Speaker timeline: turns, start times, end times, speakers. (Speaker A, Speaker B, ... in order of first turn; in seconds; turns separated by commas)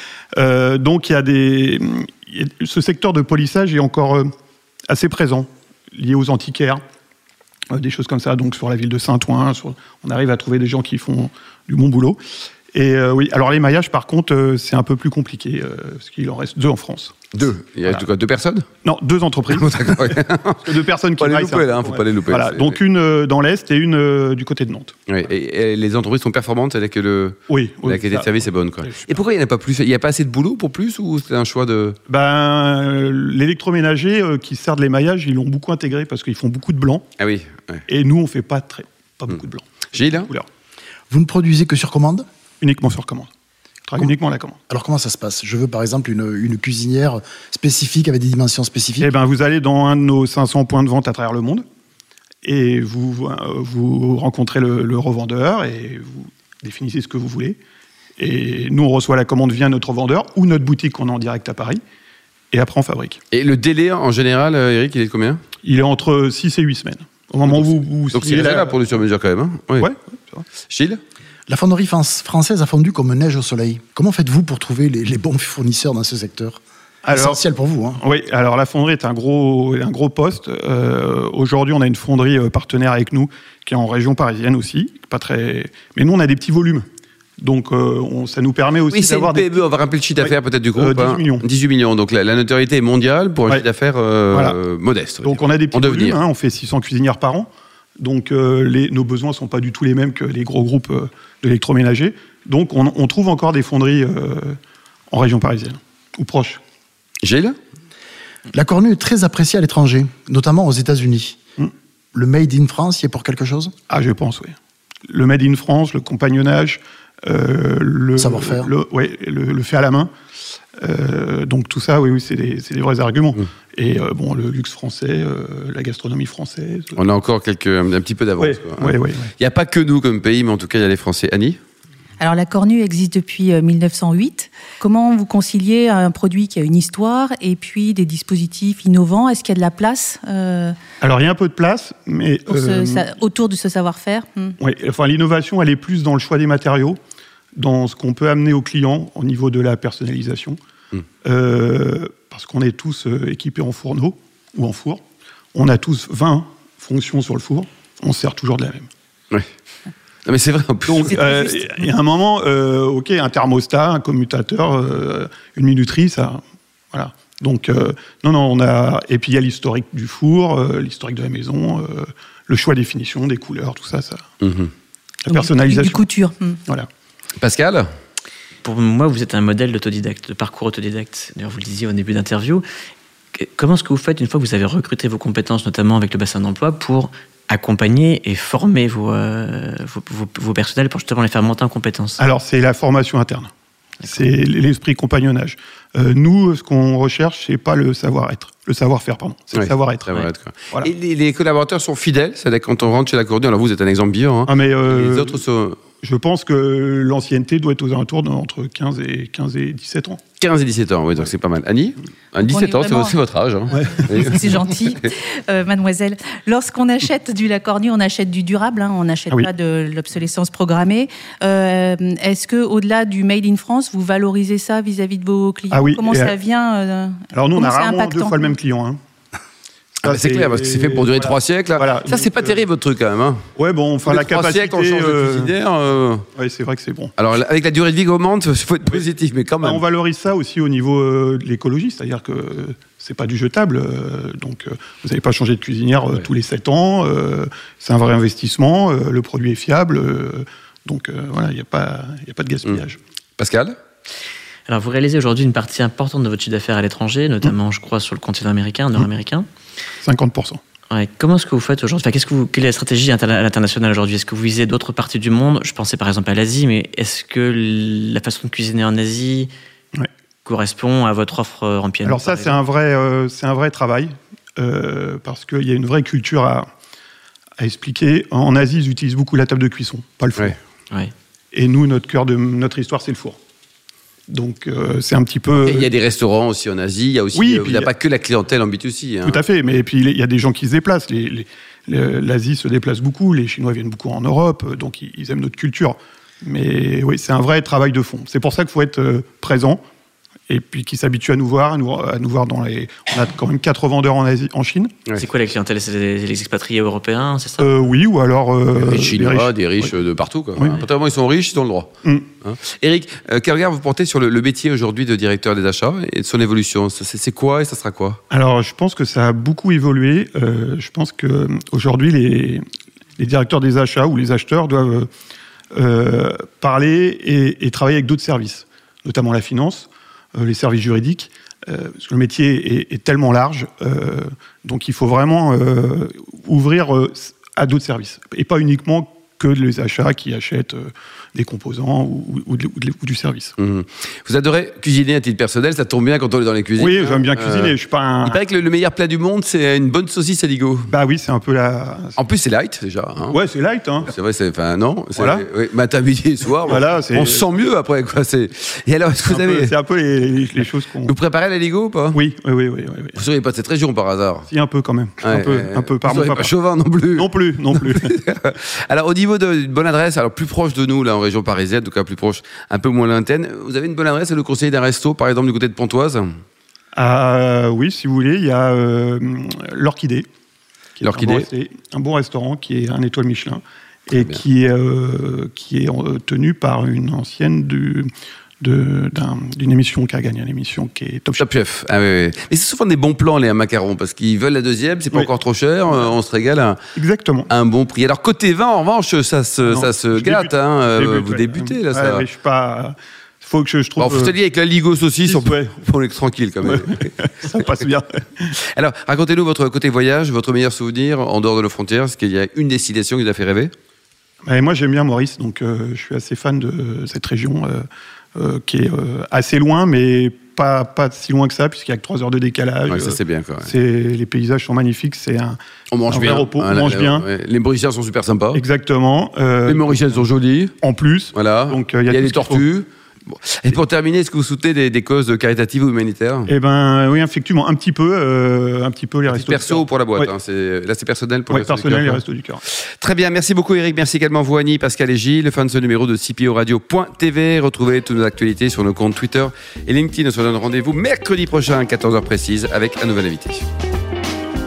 Speaker A: 0.3-4.3, Speaker A: 4.9-6.8, Speaker A: 7.7-12.2, Speaker A: 12.7-17.1, Speaker B: 17.3-18.6, Speaker A: 18.8-24.9, Speaker B: 19.5-20.7, Speaker B: 21.2-22.7, Speaker B: 25.1-32.0, Speaker A: 27.5-29.1, Speaker A: 32.1-37.1, Speaker B: 37.2-37.8, Speaker A: 37.9-40.5, Speaker B: 39.9-40.3, Speaker C: 41.1-42.2, Speaker A: 42.6-43.3, Speaker A: 43.9-44.6, Speaker C: 44.7-49.1, Speaker A: 49.0-51.6, Speaker A: 52.4-57.6, Speaker A: 58.2-61.8, Speaker A: 62.5-63.2, Speaker B: 63.3-65.4, Speaker A: 65.6-69.0, Speaker B: 67.5-69.9, Speaker A: 69.8-70.4, Speaker B: 70.7-71.0, Speaker C: 71.5-78.0, Speaker A: 77.0-77.4, Speaker A: 78.0-86.8, Speaker A: 87.4-89.5, Speaker B: 88.9-96.2, Speaker A: 90.2-91.5, Speaker A: 94.3-94.6, Speaker A: 95.2-104.6, Speaker A: 105.1-106.6, Speaker B: 107.2-107.5, Speaker C: 108.5-111.4, Speaker C: 112.1-113.7, Speaker A: 113.9-114.5, Speaker A: 115.1-120.1, Speaker C: 118.2-118.7, Speaker A: 120.8-127.0, Speaker B: 127.0-131.6, Speaker A: 128.4-129.3, Speaker D: 132.2-140.8, Speaker A: 141.0-143.1, Speaker D: 142.5-144.6, Speaker A: 144.6-147.0, Speaker A: 147.5-150.6, Speaker A: 151.2-155.0, Speaker A: 155.5-158.9, Speaker B: 160.2-161.2, Speaker A: 160.9-174.2, Speaker B: 174.4-174.7, Speaker A: 175.2-176.0, Speaker D: 175.3-176.6, Speaker B: 177.4-177.9, Speaker E: 178.6-182.6, Speaker E: 183.3-192.2, Speaker A: 192.2-193.5, Speaker A: 194.1-200.9, Speaker B: 199.5-205.8, Speaker A: 204.4-205.4, Speaker A: 206.0-210.2, Speaker B: 210.4-214.5, Speaker D: 212.4-228.4, Speaker A: 225.7-226.3, Speaker A: 227.3-229.0, Speaker A: 230.0-232.6, Speaker B: 230.0-233.4, Speaker A: 233.6-235.5, Speaker B: 234.0-236.2, Speaker A: 236.3-237.1, Speaker B: 237.2-239.8, Speaker A: 239.6-253.0, Speaker B: 253.4-253.8, Speaker E: 254.7-259.5, Speaker A: 260.0-260.6, Speaker E: 260.9-269.5, Speaker E: 270.4-272.6, Speaker A: 272.0-276.7, Speaker A: 277.6-280.6, Speaker A: 281.5-283.4, Speaker A: 284.3-285.9, Speaker B: 285.6-289.4, Speaker A: 287.3-287.9, Speaker A: 289.2-299.8, Speaker A: 300.5-304.9, Speaker E: 305.1-307.8, Speaker A: 307.6-309.9, Speaker B: 308.8-311.9, Speaker A: 312.0-312.3, Speaker B: 312.4-318.2, Speaker A: 318.3-322.6, Speaker A: 323.2-325.1, Speaker A: 325.7-343.5, Speaker B: 343.6-350.9, Speaker A: 346.8-348.4, Speaker A: 350.9-352.1, Speaker B: 352.2-353.4, Speaker A: 353.3-354.1, Speaker B: 354.0-359.7, Speaker A: 355.1-355.4, Speaker A: 356.6-357.5, Speaker A: 359.3-361.1, Speaker B: 361.0-362.2, Speaker A: 362.1-363.2, Speaker B: 363.1-364.5, Speaker A: 364.5-366.5, Speaker B: 365.2-376.3, Speaker A: 367.1-368.1, Speaker A: 376.9-380.3, Speaker A: 380.9-388.1, Speaker B: 381.0-381.4, Speaker B: 384.1-384.4, Speaker A: 388.6-391.4, Speaker B: 391.4-396.8, Speaker A: 396.9-397.5, Speaker B: 397.5-402.2, Speaker A: 399.6-404.4, Speaker B: 404.0-407.1, Speaker A: 405.2-405.8, Speaker A: 406.6-408.5, Speaker B: 408.6-413.7, Speaker A: 414.4-427.3, Speaker B: 422.9-423.7, Speaker B: 425.9-428.6, Speaker A: 428.5-430.2, Speaker B: 429.6-430.7, Speaker A: 430.8-432.7, Speaker B: 431.3-436.5, Speaker A: 436.4-440.3, Speaker B: 439.2-453.6, Speaker A: 441.5-442.6